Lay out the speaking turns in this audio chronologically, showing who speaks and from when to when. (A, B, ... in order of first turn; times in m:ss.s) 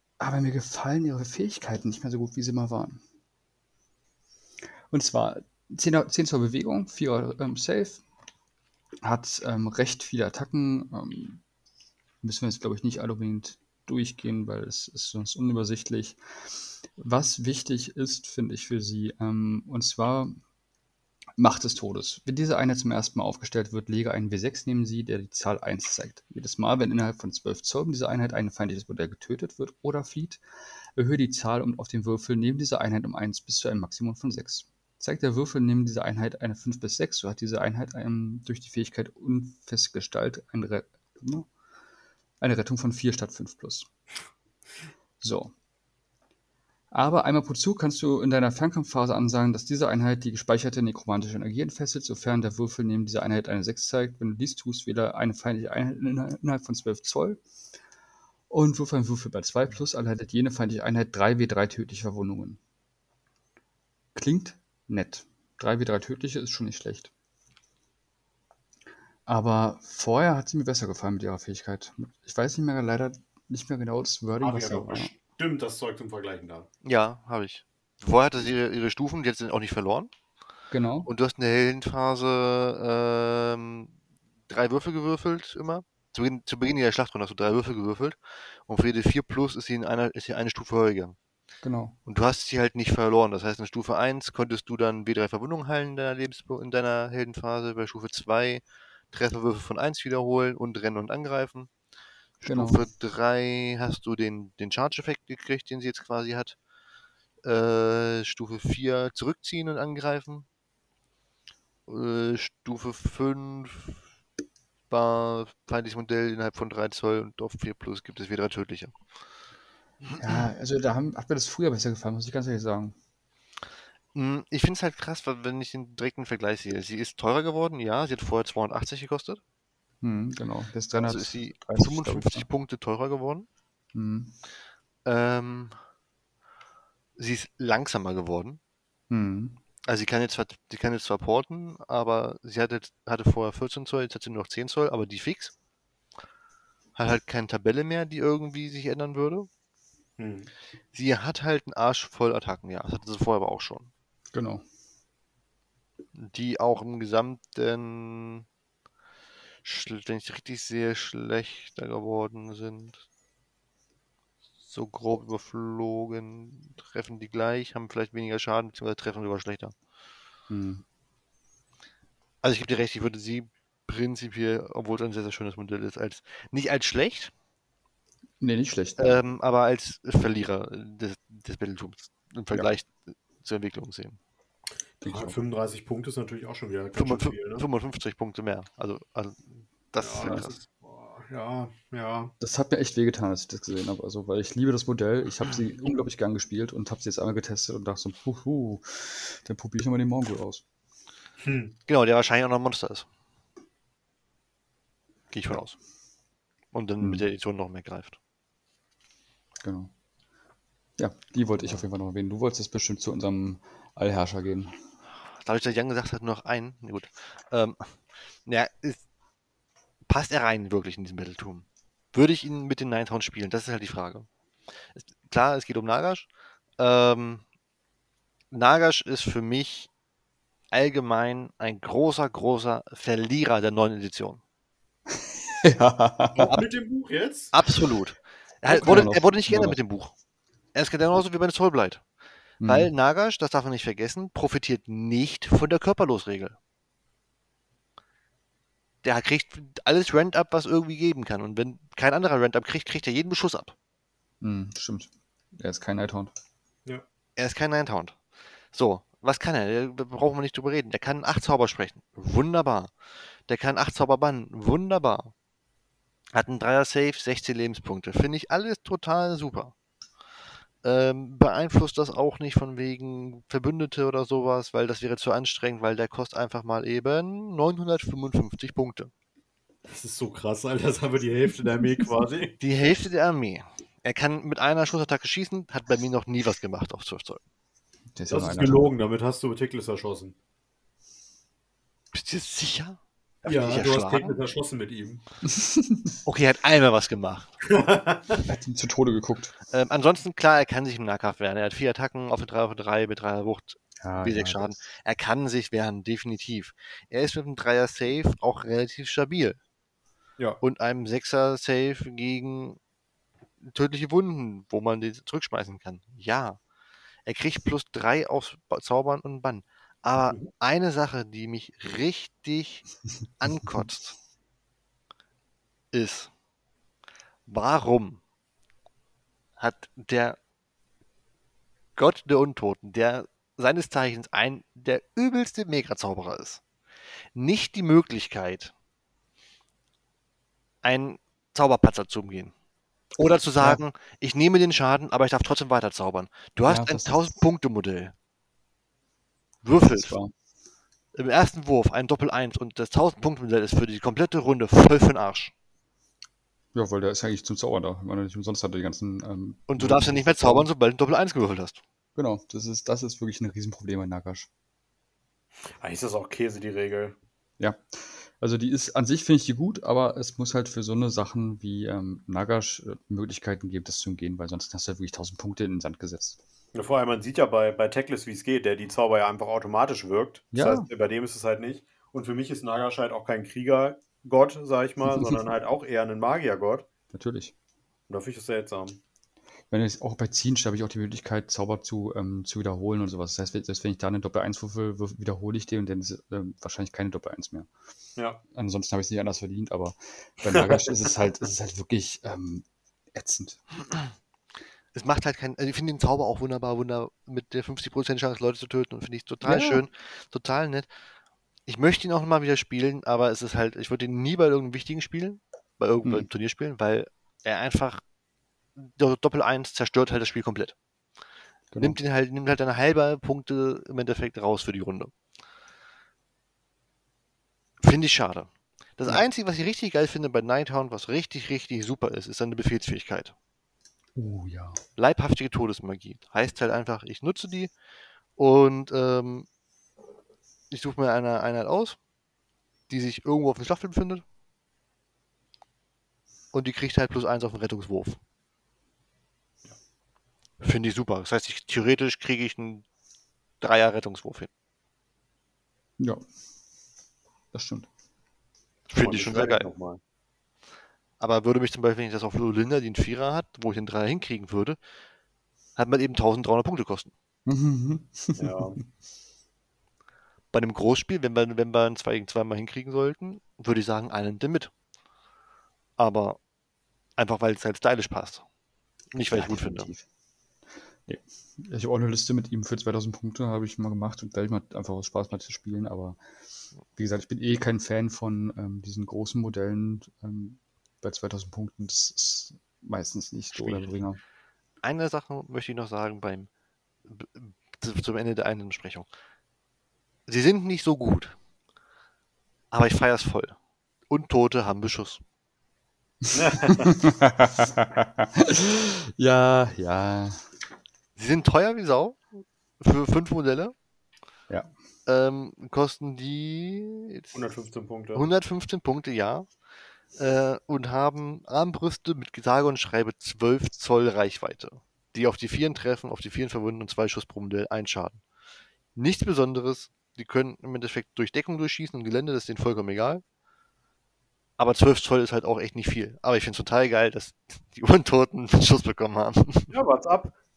0:00.2-0:03.0 A
0:04.9-0:08.0 A
0:09.0-0:11.4 A
0:12.2-0:16.2 A
0:17.0-0:20.4 A
0:21.4-0:30.4 A
0:31.0-0:41.5 A
0:42.4-0:43.9 A
0:45.2-0:45.5 A
0:46.9-0:57.4 A
0:58.5-1:02.6 A
1:04.2-1:07.1 A
1:09.3-1:15.1 A
1:14.4-1:16.7 B
1:16.8-1:20.1 C
1:20.7-1:21.1 A
1:21.1-1:23.9 C
1:24.5-1:31.2 C
1:31.6-1:32.0 A
1:32.1-1:41.7 C
1:42.4-1:46.6 C
1:42.4-1:42.8 A
1:47.4-1:50.5 C
1:51.9-1:54.0 C
1:54.9-1:59.0 C
2:00.2-2:03.0 A
2:04.1-2:09.4 C
2:10.0-2:12.5 A
2:11.0-2:13.5 C
2:13.9-2:14.3 A
2:15.0-2:15.8 C
2:17.2-2:18.6 C
2:19.1-2:19.6 A
2:19.9-2:25.5 C
2:27.0-2:29.5 C
2:30.2-2:30.5 B
2:30.9-2:33.9 C
2:34.3-2:34.6 A
2:36.2-2:38.5 C
2:39.6-2:43.0 C
2:44.7-2:49.7 C
2:50.5-2:50.8 A
2:52.4-2:57.3 C
2:58.4-2:59.2 A
2:59.0-3:04.2 C
3:05.0-3:05.4 A
3:05.0-3:07.7 B
3:07.0-3:10.6 C
3:10.0-3:12.3 B
3:10.2-3:10.5 A
3:12.4-3:20.6 A
3:21.4-3:21.8 B
3:21.9-3:23.1 C
3:25.3-3:25.8 C
3:26.7-3:28.2 C
3:27.0-3:27.3 A
3:29.6-3:29.9 A
3:31.0-3:34.8 A
3:35.3-3:39.0 C
3:40.1-3:44.3 C
3:45.0-3:47.4 C
3:48.5-3:49.9 C
3:50.7-3:54.4 C
3:55.6-3:56.6 A
3:56.4-3:56.6 C
3:56.4-3:57.6 B
3:57.5-4:00.1 C
3:58.7-3:59.8 A
4:00.7-4:02.0 C
4:02.6-4:02.9 A
4:02.6-4:06.6 C
4:09.0-4:13.8 C
4:14.4-4:16.3 A
4:17.4-4:18.2 C
4:18.7-4:22.9 C
4:23.5-4:25.3 C
4:26.3-4:29.7 C
4:30.8-4:39.1 C
4:39.8-4:42.6 B
4:42.6-4:47.4 C
4:48.2-4:48.8 A
4:48.3-4:50.4 B
4:52.1-4:54.3 C
4:53.4-4:55.2 B
4:55.5-4:56.1 A
4:56.2-4:57.5 C
4:57.7-4:58.4 B
4:58.5-4:59.5 A
4:59.7-5:09.6 C
5:04.0-5:04.8 A
5:10.6-5:12.8 C
5:13.6-5:16.6 C
5:17.3-5:22.9 C
5:23.4-5:24.2 C
5:25.9-5:26.3 C
5:27.5-5:28.2 C
5:29.6-5:30.4 C
5:32.0-5:36.6 C
5:37.4-5:38.7 C
5:40.8-5:42.5 C
5:43.2-5:48.2 C
5:46.7-5:47.3 A
5:49.6-5:50.2 C
5:49.9-5:50.3 A
5:51.1-5:55.5 C
5:56.7-6:00.7 A
5:59.7-6:01.8 C
6:02.2-6:04.5 A
6:05.8-6:07.2 B
6:07.6-6:16.4 A
6:16.7-6:26.9 B
6:20.5-6:20.9 A
6:27.1-6:27.5 A
6:28.1-6:29.0 B
6:29.7-6:37.7 A
6:38.5-6:43.7 A
6:44.9-6:50.9 C
6:49.4-6:49.8 A
6:51.7-6:58.0 C
6:58.8-7:00.8 C
7:01.7-7:02.0 A
7:01.8-7:05.1 C
7:07.8-7:13.3 C
7:14.2-7:14.8 A
7:15.0-7:17.7 C
7:18.4-7:19.5 C
7:20.7-7:22.0 C
7:22.9-7:24.2 C
7:26.5-7:28.2 C
7:30.6-7:32.8 C
7:33.6-7:34.5 C
7:36.0-7:36.2 A
7:37.5-7:37.9 A
7:38.9-7:39.7 C
7:39.0-7:40.0 B
7:41.2-7:44.8 C
7:45.8-7:47.1 C
7:47.5-7:48.6 A
7:48.4-7:48.8 B
7:50.5-7:54.7 C
7:56.0-7:56.4 C
7:57.2-7:58.4 C
7:59.1-7:59.9 C
7:59.2-8:00.0 A
8:01.1-8:06.2 A
8:07.0-8:14.2 A
8:13.5-8:14.0 C
8:14.8-8:16.5 C
8:17.1-8:19.1 C
8:20.3-8:21.4 C
8:22.7-8:23.6 C
8:24.1-8:25.2 C
8:26.3-8:26.9 B
8:26.7-8:30.5 A
8:31.2-8:33.7 C
8:35.1-8:37.4 C
8:37.3-8:38.3 B
8:38.1-8:39.5 C
8:40.1-8:48.2 C
8:49.0-8:53.2 C
8:54.6-8:59.7 C
8:59.7-9:00.4 B